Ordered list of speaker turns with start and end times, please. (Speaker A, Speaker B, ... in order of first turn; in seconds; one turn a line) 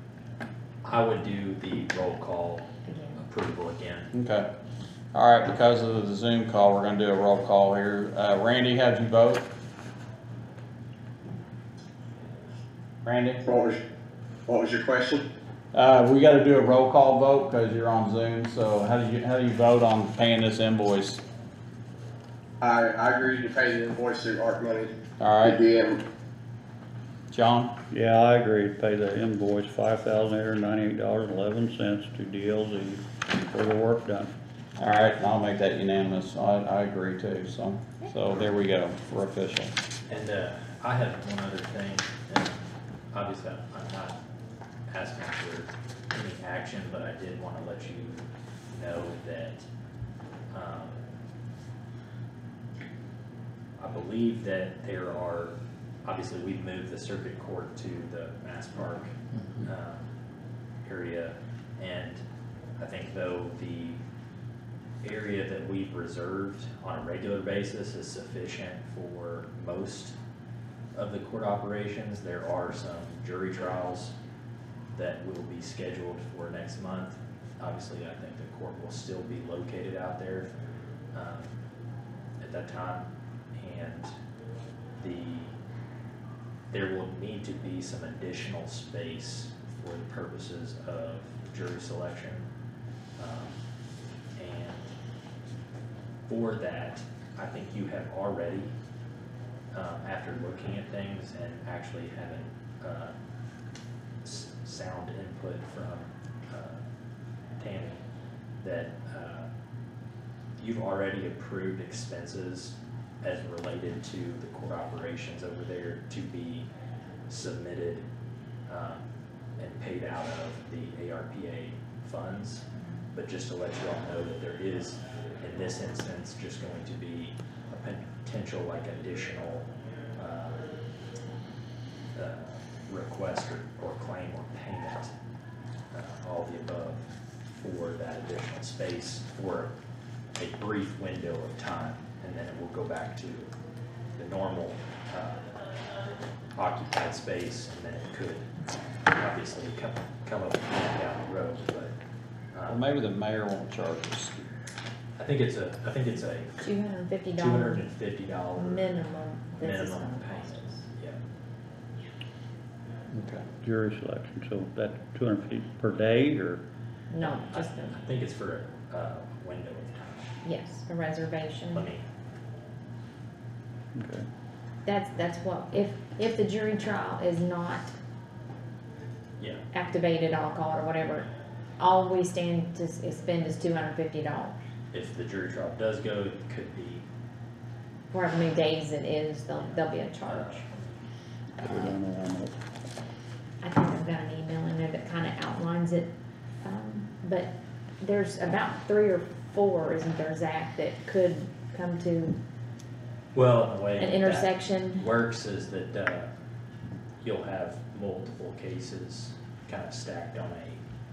Speaker A: 0.8-4.1
Speaker B: 2.9-3.2
Speaker C: 4.1-4.5
Speaker C: 5.1-9.5
Speaker C: 13.1-13.5
Speaker D: 13.5-13.8
Speaker D: 14.5-15.2
Speaker C: 15.7-21.2
Speaker D: 22.6-24.9
Speaker C: 25.2-25.6
Speaker D: 25.4-26.0
Speaker C: 27.3-27.8
Speaker E: 27.9-34.3
Speaker C: 34.8-39.7
Speaker A: 40.1-44.2
Speaker A: 44.9-49.6
Speaker A: 50.5-51.0
Speaker A: 53.8-60.1
Speaker C: 59.3-59.7
Speaker A: 60.8-62.2
Speaker A: 62.8-64.0
Speaker A: 65.0-70.2
Speaker A: 70.9-74.1
Speaker A: 74.9-80.5
Speaker A: 81.1-81.6
Speaker A: 82.4-84.1
Speaker A: 85.0-85.5
Speaker A: 86.7-92.5
Speaker A: 93.2-93.6
Speaker A: 94.4-94.9
Speaker A: 96.3-98.7
Speaker A: 99.7-103.1
Speaker A: 104.2-106.8
Speaker A: 107.6-108.0
Speaker A: 108.6-109.5
Speaker A: 110.6-116.7
Speaker A: 117.3-118.0
Speaker A: 118.7-119.0
Speaker A: 119.6-130.6
Speaker A: 132.1-135.1
Speaker A: 135.9-137.0
Speaker A: 137.6-139.7
Speaker A: 140.4-143.5
Speaker A: 144.2-145.4
Speaker A: 146.6-148.6
Speaker A: 149.2-151.9
Speaker A: 152.5-152.8
Speaker C: 152.7-154.6
Speaker A: 155.2-156.7
Speaker B: 156.6-157.8
Speaker A: 157.4-158.9
Speaker B: 158.6-160.8
Speaker A: 159.5-161.2
Speaker C: 163.1-163.5
Speaker E: 163.6-166.6
Speaker B: 167.1-168.0
Speaker A: 167.2-170.3
Speaker B: 170.4-171.9
Speaker A: 171.7-172.1
Speaker E: 173.9-174.3
Speaker B: 174.8-177.9
Speaker A: 179.4-179.7
Speaker B: 179.7-181.3
Speaker B: 181.8-184.6
Speaker A: 184.9-187.1
Speaker B: 188.1-190.7
Speaker A: 189.6-191.0
Speaker E: 191.6-192.6
Speaker B: 193.6-202.4
Speaker A: 203.3-206.3
Speaker B: 204.0-205.0
Speaker A: 207.2-210.8